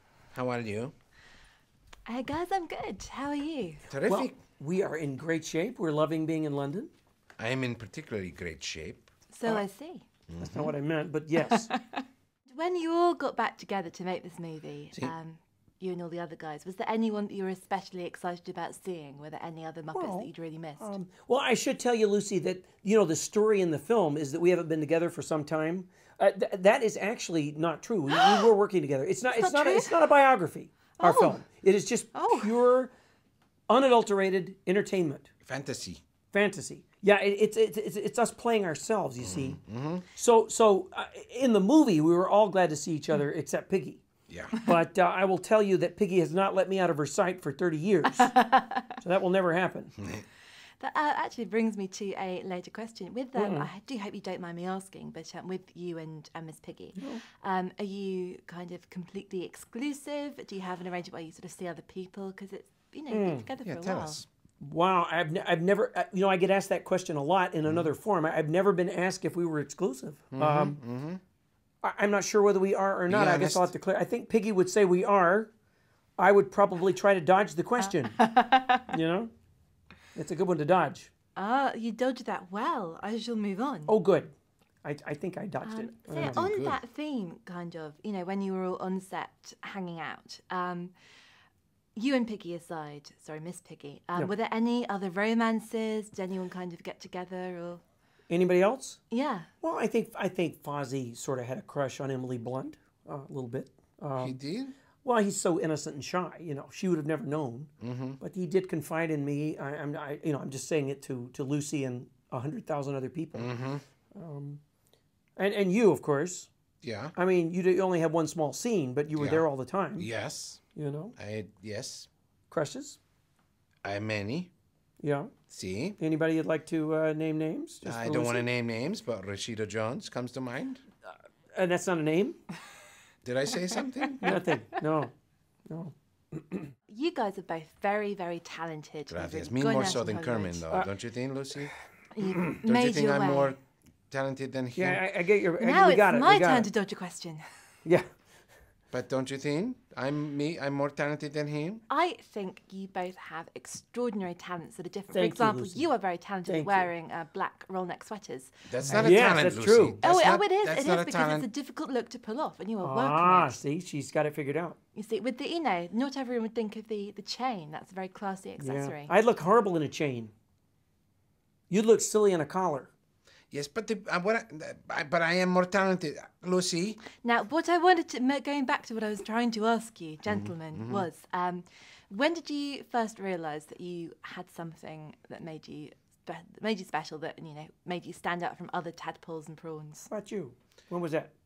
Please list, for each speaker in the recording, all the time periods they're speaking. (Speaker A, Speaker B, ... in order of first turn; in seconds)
Speaker A: 0.3-0.9, 3.9-4.4, 7.4-9.6, 10.3-10.7, 35.5-36.0, 39.2-40.1, 44.3-44.5, 63.6-64.3, 70.3-71.2, 73.1-73.7, 86.2-86.8, 104.2-104.7, 107.8-108.2, 113.4-113.8, 116.8-117.1, 119.2-119.5, 120.0-120.6, 121.2-122.1, 123.8-124.5, 125.5-126.0, 127.8-130.8, 133.2-134.2, 139.1-141.7, 142.6-143.6, 144.1-145.0, 148.9-151.8, 158.7-161.5, 173.5-177.0, 180.3-181.1
Speaker B: 2.1-3.9, 9.3-10.1, 11.4-20.9, 28.1-28.5, 29.3-30.0, 31.0-31.4, 32.1-32.6, 48.2-48.9, 50.8-64.2, 77.8-78.9, 81.4-83.9, 85.6-90.9, 92.0-97.8, 99.1-99.5, 136.9-140.7, 142.1-143.6, 145.6-147.4, 151.9-158.6, 160.0-163.6, 164.9-169.1, 177.2-190.1
Speaker C: 4.0-6.9, 10.4-11.8, 19.9-32.9, 33.7-35.3, 36.3-39.6, 40.1-44.0, 44.6-48.4, 48.9-50.0, 53.4-53.7, 57.0-57.2, 63.1-63.5, 64.6-70.8, 71.8-75.5, 76.2-78.2, 78.9-79.3, 80.2-81.1, 83.9-84.3, 84.8-86.5, 98.3-99.0, 99.6-104.4, 105.0-113.5, 114.2-114.6, 115.4-116.5, 117.2-120.1, 120.7-121.1, 122.5-123.0, 125.0-125.3, 126.0-128.5, 131.6-132.4, 134.2-135.1, 135.7-136.7, 144.8-146.7, 155.1-155.9, 156.4-156.9, 158.9-160.0, 162.8-164.8, 168.6-170.3, 171.7-172.9, 190.1-191.3